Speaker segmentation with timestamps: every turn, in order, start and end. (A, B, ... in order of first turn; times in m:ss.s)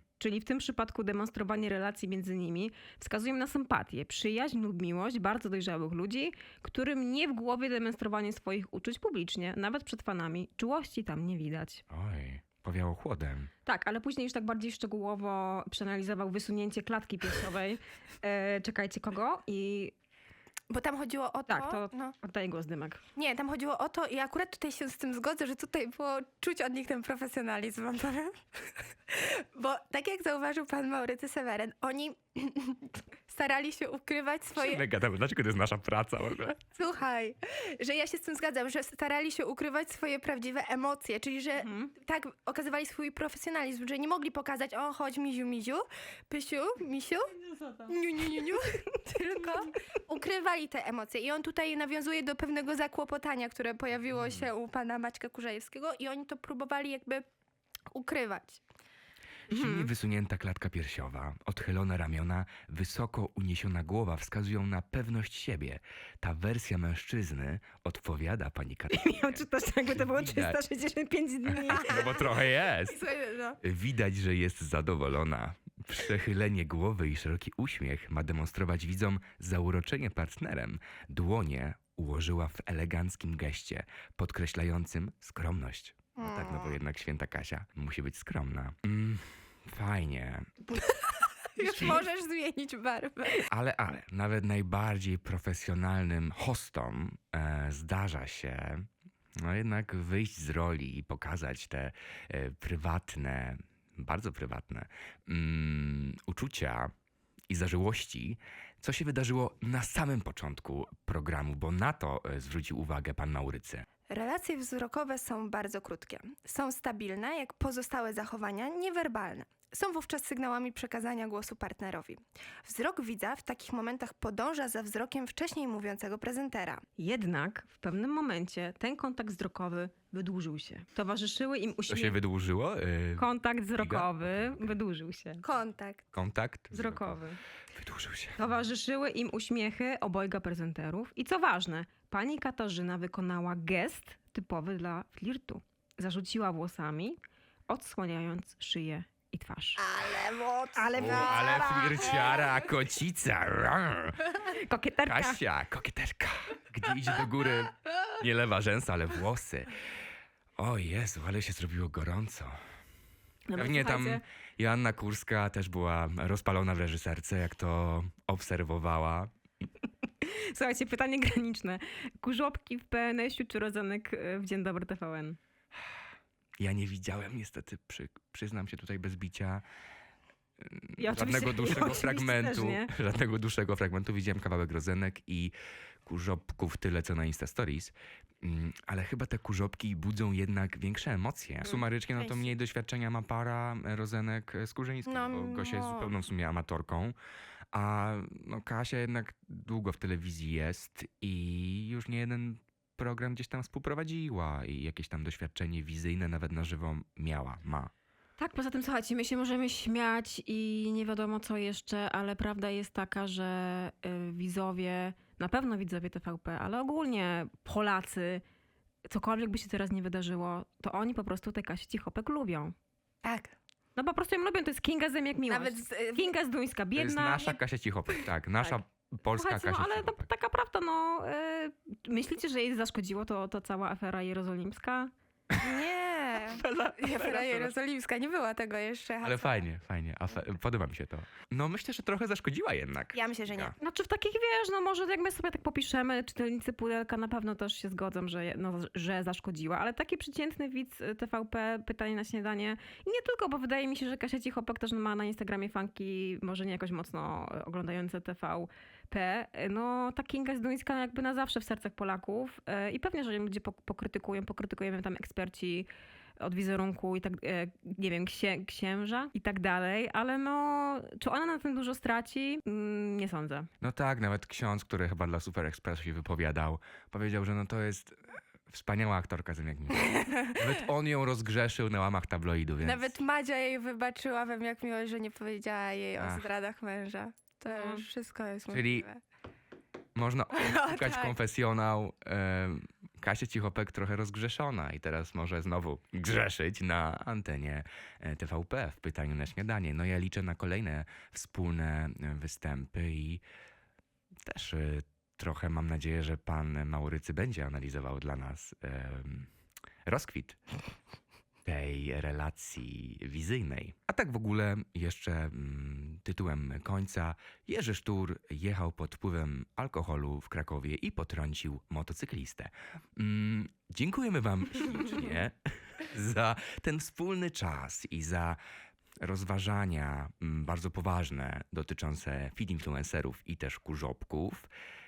0:00.2-0:11.8 A
0:11.9-0:13.5 B
0:13.6-0:19.9 A
0:20.7-0:22.1 C
0:21.5-0:23.0 A
0:23.2-0:34.8 C
0:34.6-0:36.6 B
0:36.7-0:57.2 C
0:41.6-0:41.9 A
0:57.9-0:58.6 C
0:59.5-1:10.6 B
0:59.5-0:59.9 A
1:08.9-1:12.1 A
1:11.5-1:13.0 B
1:11.8-1:12.2 C
1:12.9-1:13.6 C
1:13.6-1:30.5 B
1:26.2-1:26.7 C
1:30.8-1:31.0 C
1:31.6-1:33.5 C
1:33.5-1:46.9 B
1:47.5-1:53.8 B
1:54.1-2:06.8 C
2:07.0-2:12.2 A
2:11.9-2:14.7 B
2:13.2-2:15.4 A
2:15.4-2:16.1 C
2:16.1-2:17.2 B
2:16.7-2:17.4 A
2:17.7-2:18.4 B
2:18.4-2:27.2 A
2:27.7-2:29.8 A
2:29.8-2:32.5 C
2:30.8-2:31.9 A
2:31.0-2:34.3 B
2:34.5-2:35.4 A
2:35.0-2:39.8 B
2:40.6-2:42.5 B
2:43.5-2:44.2 A
2:43.6-2:49.3 B
2:50.2-2:55.4 A
2:56.6-2:59.6 B
3:00.6-3:05.5 B
3:01.0-3:02.9 A
3:06.0-3:17.2 B
3:11.7-3:12.4 C
3:15.0-3:16.1 C
3:17.7-3:27.9 B
3:28.4-3:38.4 A
3:39.1-3:42.7 A
3:43.2-3:43.5 C
3:44.0-3:47.6 A
3:45.5-3:46.3 C
3:47.0-3:50.2 B
3:49.3-3:55.1 A
3:55.6-3:59.6 C
3:56.5-3:57.7 B
3:59.2-4:03.7 B
4:03.1-4:03.7 C
4:03.8-4:33.7 A
4:33.8-4:43.1 B
4:40.0-4:40.7 C
4:42.8-4:49.2 C
4:46.2-4:46.4 B
4:47.7-4:48.0 A
4:48.7-4:49.1 B
4:50.1-5:03.4 B
4:50.6-4:51.3 C
5:04.4-5:09.5 B
5:10.0-5:10.6 B
5:11.6-5:28.6 B
5:29.2-5:34.7 B